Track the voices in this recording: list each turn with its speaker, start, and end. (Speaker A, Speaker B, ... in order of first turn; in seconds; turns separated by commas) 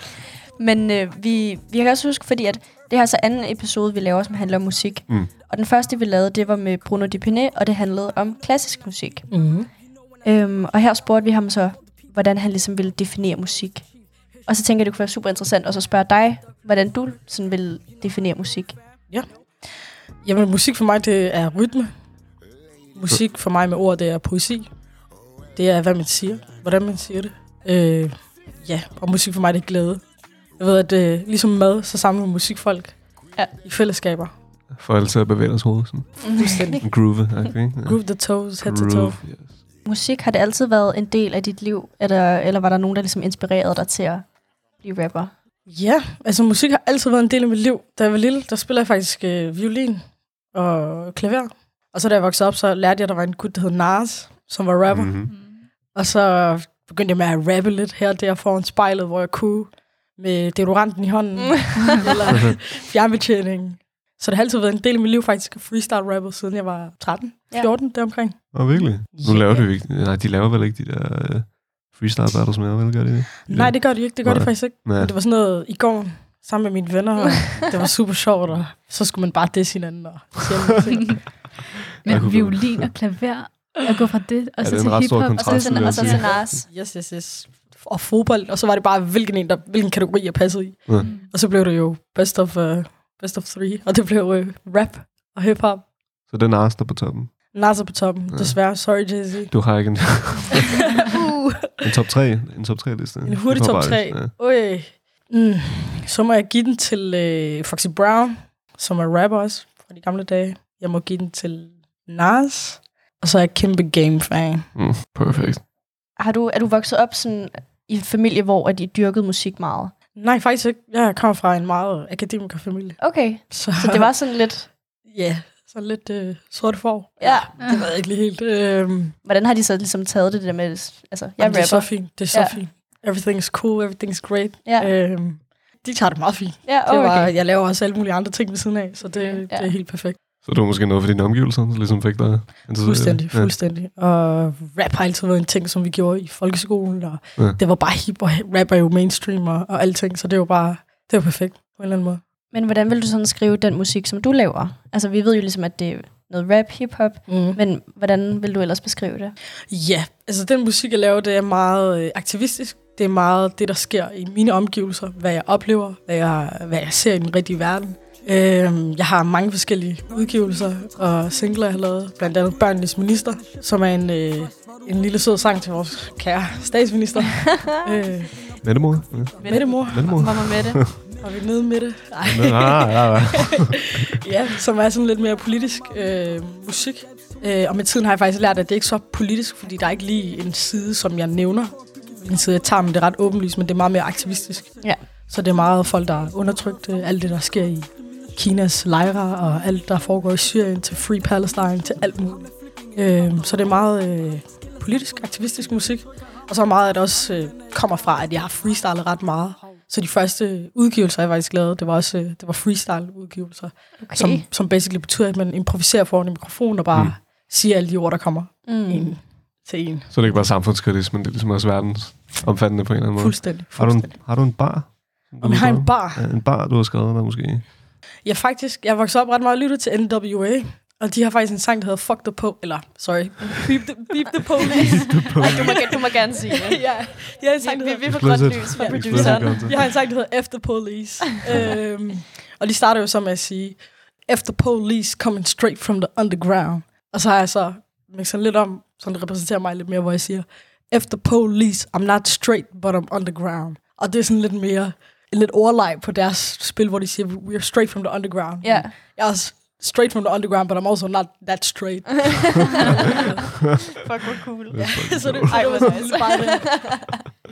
Speaker A: 0.6-18.8, Speaker B: 9.3-9.7, Speaker B: 19.1-22.0, Speaker B: 22.9-24.7, Speaker B: 25.5-34.3, Speaker C: 34.7-39.6, Speaker A: 36.2-36.8, Speaker B: 36.4-37.1, Speaker B: 37.8-39.2, Speaker A: 39.8-45.3, Speaker B: 45.7-69.7, Speaker C: 54.9-55.3, Speaker D: 55.3-55.6, Speaker A: 61.4-62.2, Speaker C: 68.5-75.1, Speaker B: 73.5-81.6, Speaker D: 82.0-86.2, Speaker C: 82.1-82.9, Speaker C: 84.6-86.5, Speaker A: 85.4-86.7, Speaker B: 86.2-95.9, Speaker D: 91.0-91.3, Speaker C: 96.2-97.5, Speaker B: 97.5-100.1, Speaker C: 98.3-98.7, Speaker C: 99.5-100.8, Speaker B: 101.0-101.8, Speaker C: 101.8-104.3, Speaker B: 103.2-114.7, Speaker C: 114.7-115.6, Speaker A: 116.2-119.9, Speaker B: 120.2-124.1, Speaker A: 123.0-124.7, Speaker B: 125.0-129.2, Speaker A: 127.2-127.5, Speaker D: 127.6-127.9, Speaker A: 129.2-132.6, Speaker B: 131.4-140.2, Speaker A: 134.6-134.9, Speaker A: 136.7-137.3, Speaker A: 139.0-139.7, Speaker C: 140.4-143.5, Speaker B: 142.7-152.2, Speaker A: 152.5-159.3, Speaker B: 157.3-157.6, Speaker B: 159.7-178.6, Speaker A: 177.4-177.8, Speaker C: 178.6-181.0, Speaker B: 179.4-180.4, Speaker A: 179.4-180.8, Speaker B: 181.2-220.1, Speaker C: 182.2-184.1, Speaker A: 194.8-195.1, Speaker A: 214.0-214.5, Speaker C: 216.9-217.2, Speaker A: 218.6-219.2, Speaker C: 220.1-227.7, Speaker B: 223.1-224.4, Speaker B: 225.4-226.3, Speaker B: 228.2-263.4, Speaker C: 234.7-236.0, Speaker A: 234.8-239.9, Speaker C: 238.1-239.9, Speaker A: 258.6-258.9, Speaker A: 264.0-267.2, Speaker C: 264.7-266.0, Speaker B: 264.7-267.1